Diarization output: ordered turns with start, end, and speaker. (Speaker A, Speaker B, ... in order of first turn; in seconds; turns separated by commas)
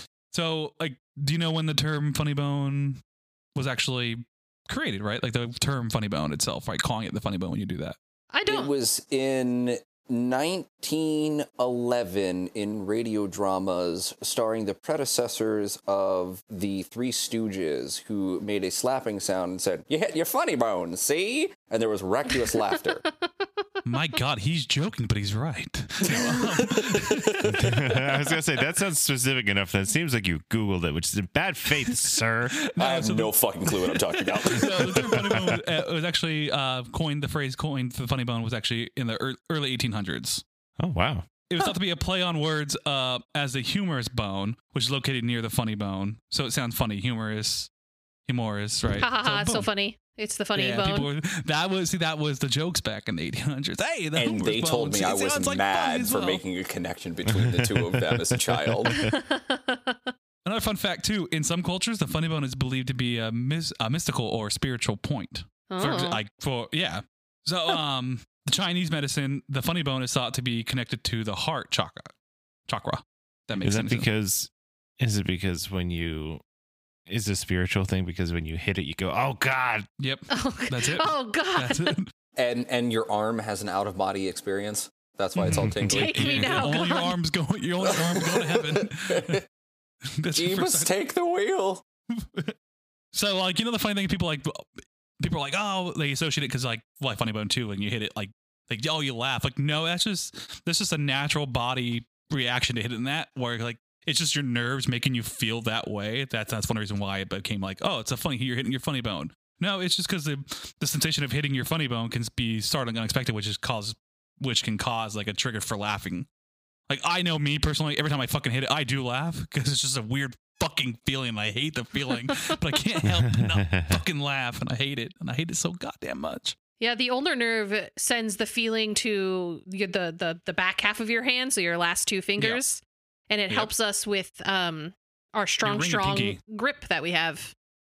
Speaker A: 0.3-3.0, Speaker A: 3.5-8.0, Speaker B: 8.3-8.7, Speaker C: 8.5-23.0, Speaker A: 23.8-27.7, Speaker C: 26.2-27.4, Speaker D: 27.4-32.6, Speaker A: 32.6-40.4, Speaker C: 32.8-35.5, Speaker D: 40.8-41.2, Speaker A: 41.5-47.7, Speaker A: 48.3-49.7, Speaker B: 49.0-51.1, Speaker A: 50.5-56.4, Speaker C: 54.1-59.0, Speaker D: 57.3-59.1, Speaker B: 58.9-60.1, Speaker A: 60.4-72.1, Speaker B: 65.7-66.2, Speaker A: 72.7-74.1, Speaker D: 73.6-76.4, Speaker D: 77.1-79.9, Speaker A: 80.0-82.1, Speaker B: 80.3-82.0, Speaker C: 82.3-86.8, Speaker A: 85.3-89.4, Speaker D: 85.5-85.9, Speaker B: 85.9-87.2, Speaker C: 87.8-89.4, Speaker A: 90.2-90.9, Speaker C: 90.3-91.8, Speaker A: 92.1-92.5, Speaker A: 93.1-116.3, Speaker A: 116.9-126.6, Speaker D: 123.2-123.9, Speaker B: 126.8-137.5, Speaker A: 132.4-132.6, Speaker A: 135.6-136.4